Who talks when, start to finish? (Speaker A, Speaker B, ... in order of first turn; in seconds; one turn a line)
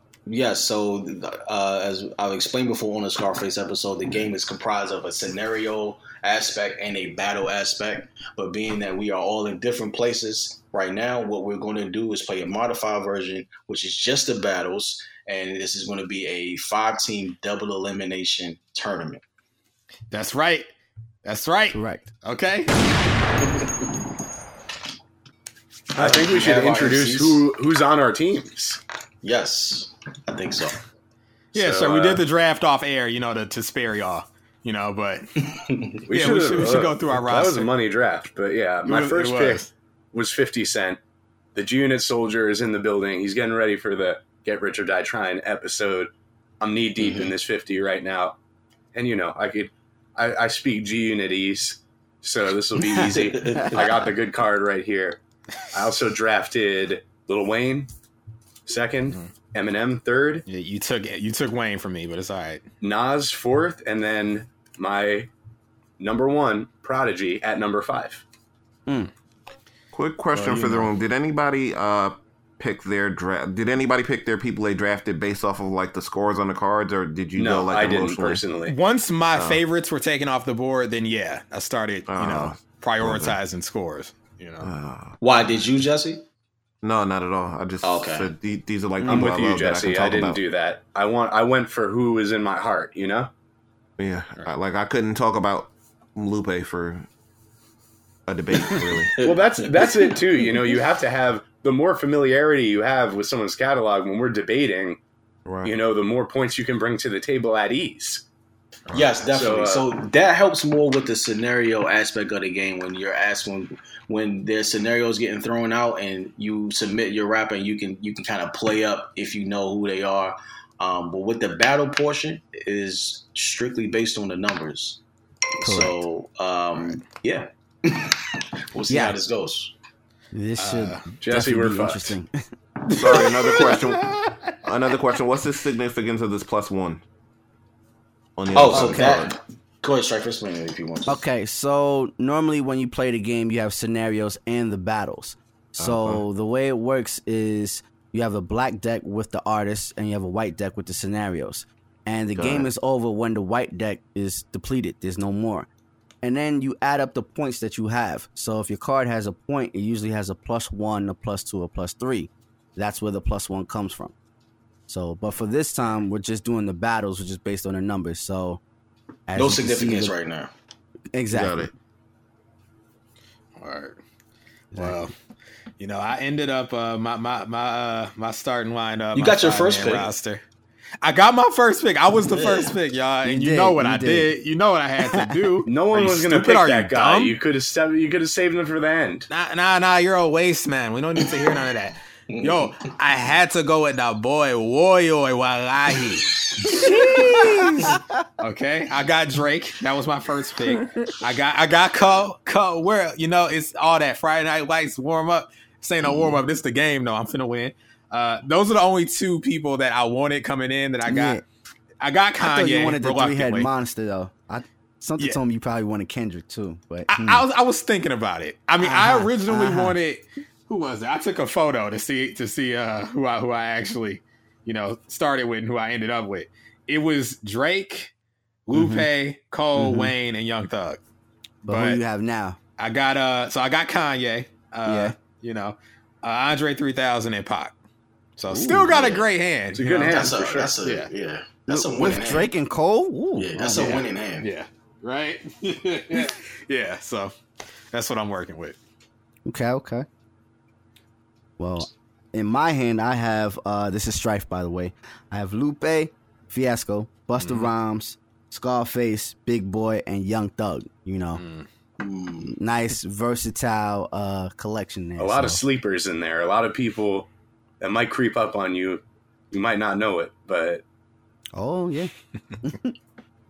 Speaker A: 0.3-19.2
Speaker B: 20.1-20.7
Speaker B: 21.2-22.7
Speaker C: 21.7-22.1
Speaker D: 25.9-28.8
Speaker A: 25.9-27.5
Speaker A: 29.2-30.8
Speaker D: 31.5-32.2
Speaker B: 31.5-35.3
Speaker A: 35.5-36.0
Speaker D: 36.1-41.0
Speaker B: 36.1-37.7
Speaker B: 38.8-39.7
Speaker D: 41.5-48.4
Speaker A: 47.0-47.3
Speaker D: 48.9-55.2
Speaker A: 52.9-54.1
Speaker D: 55.7-57.9
Speaker D: 58.7-60.5
Speaker B: 60.5-62.6
Speaker D: 62.8-65.3
Speaker D: 66.0-68.2
Speaker E: 69.9-78.4
Speaker B: 70.3-70.9
Speaker D: 77.4-78.8
Speaker B: 78.7-84.7
Speaker E: 79.4-79.6
Speaker E: 82.1-83.4
Speaker E: 84.6-85.2
Speaker A: 85.2-86.2
Speaker E: 86.8-90.4
Speaker A: 87.8-88.3
Speaker C: 89.0-89.3
Speaker D: 89.1-93.3
Speaker E: 94.0-97.1
Speaker E: 98.3-99.2
Speaker A: 98.5-100.7
Speaker D: 99.2-105.0
Speaker E: 105.5-105.7
Speaker D: 105.6-108.2
Speaker A: 108.9-125.0
Speaker D: 109.3-109.9
Speaker A: 125.6-129.7
Speaker C: 125.6-126.0
Speaker B: 126.8-127.0
Speaker C: 128.9-129.2
Speaker C: 130.3-132.3
Speaker B: 130.6-131.0
Speaker D: 131.2-132.2
Speaker B: 132.9-134.4
Speaker E: 132.9-137.0
Speaker E: 138.4-139.4
Speaker A: 138.5-141.2
Speaker C: 138.7-139.3
Speaker C: 141.1-155.7
Speaker E: 145.8-146.2
Speaker E: 152.3-152.7
Speaker C: 156.2-164.1
Speaker C: 164.9-168.6
Speaker C: 169.3-170.2
Speaker A: 169.4-170.5
Speaker C: 171.1-171.7
Speaker E: 171.3-171.7
Speaker B: 173.6-174.0
Speaker C: 174.7-175.0
Speaker B: 174.8-175.1
Speaker B: 175.8-180.4
Speaker A: 179.1-180.1
Speaker B: 181.0-187.3
Speaker A: 182.3-182.8
Speaker C: 183.2-184.3
Speaker D: 185.7-189.3
Speaker B: 189.3-211.4
Speaker A: 192.3-192.7
Speaker C: 197.1-197.9
Speaker C: 211.1-211.4
Speaker B: 212.0-213.7
Speaker C: 212.4-217.4
Speaker B: 217.1-228.1
Speaker C: 218.8-220.0
Speaker B: 228.7-231.0
Speaker C: 228.7-229.1
Speaker C: 229.8-230.1
Speaker C: 231.6-232.6
Speaker B: 231.7-232.0
Speaker B: 232.8-237.8
Speaker C: 234.9-235.2
Speaker B: 238.4-240.3
Speaker C: 238.5-239.1
Speaker A: 238.9-239.2
Speaker D: 239.8-240.8
Speaker A: 240.0-242.5
Speaker B: 240.8-241.1
Speaker C: 241.7-244.0
Speaker A: 243.4-244.5
Speaker B: 243.6-247.3
Speaker B: 247.9-248.8
Speaker C: 249.4-250.1
Speaker C: 251.6-261.4
Speaker B: 257.4-257.7
Speaker B: 261.3-261.7
Speaker A: 262.0-262.6
Speaker C: 262.6-265.6
Speaker D: 265.2-267.3
Speaker D: 267.8-270.8
Speaker C: 271.5-272.1
Speaker C: 272.6-272.9